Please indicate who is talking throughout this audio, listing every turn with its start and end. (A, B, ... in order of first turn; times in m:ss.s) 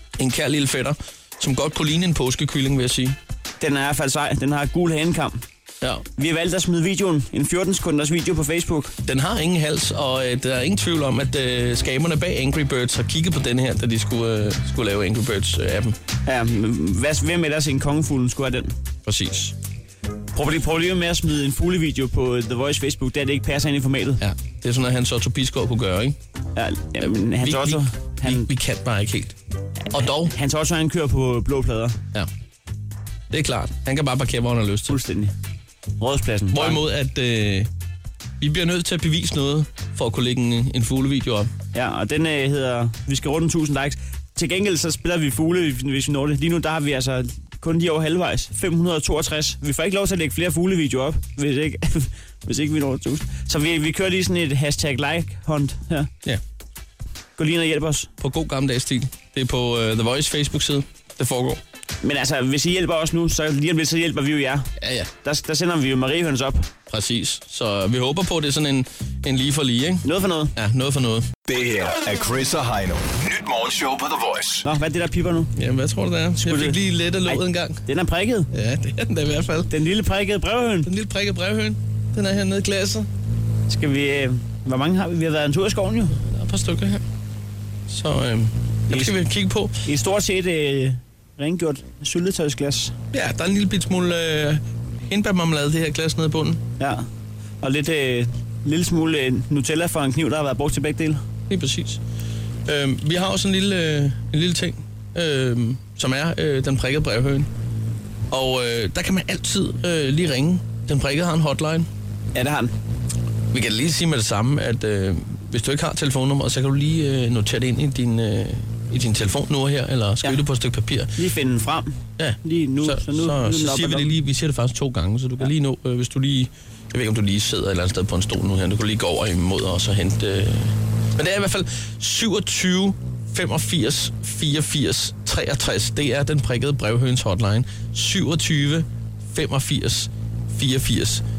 0:00.2-0:03.2 A
0:03.6-0:05.4 B
0:06.2-0:08.9 B
0:09.1-0:16.0 A
0:16.3-0:18.8 B
0:19.1-0:19.5 A
0:20.3-0:24.2 B
0:24.2-0:26.2 A
0:26.6-0:28.5 B
0:27.0-0:29.4 A
0:29.9-0:30.3 A
0:30.0-0:32.0 B
0:33.3-0:35.0 A
0:34.9-0:35.3 B
0:36.0-0:36.8 B
0:36.5-0:37.7 A
0:38.4-0:41.5 A
0:41.7-0:56.1 B
0:57.4-0:58.1 B
0:58.2-1:01.6 A
1:02.0-1:04.7 B
1:04.8-1:05.1 A
1:05.2-1:06.7 B
1:06.9-1:10.0 A
1:10.0-1:10.5 B
1:10.6-1:11.3 A
1:11.5-1:14.6 C
1:14.6-1:15.5 B
1:15.6-1:17.8 A
1:16.4-1:18.5 B
1:18.5-1:19.7 A
1:19.7-1:20.9 B
1:20.9-1:23.1 A
1:23.7-1:26.2 B
1:26.2-1:27.0 A
1:27.9-1:29.8 A
1:29.8-1:33.0 B
1:33.1-1:36.6 A
1:36.8-1:37.1 B
1:37.6-1:41.2 B
1:41.5-1:42.0 A
1:42.7-1:47.5 A
1:48.3-1:51.9 A
1:52.4-1:52.7 B
1:53.5-2:01.1 A
2:01.2-2:04.1 B
2:02.2-2:21.2 A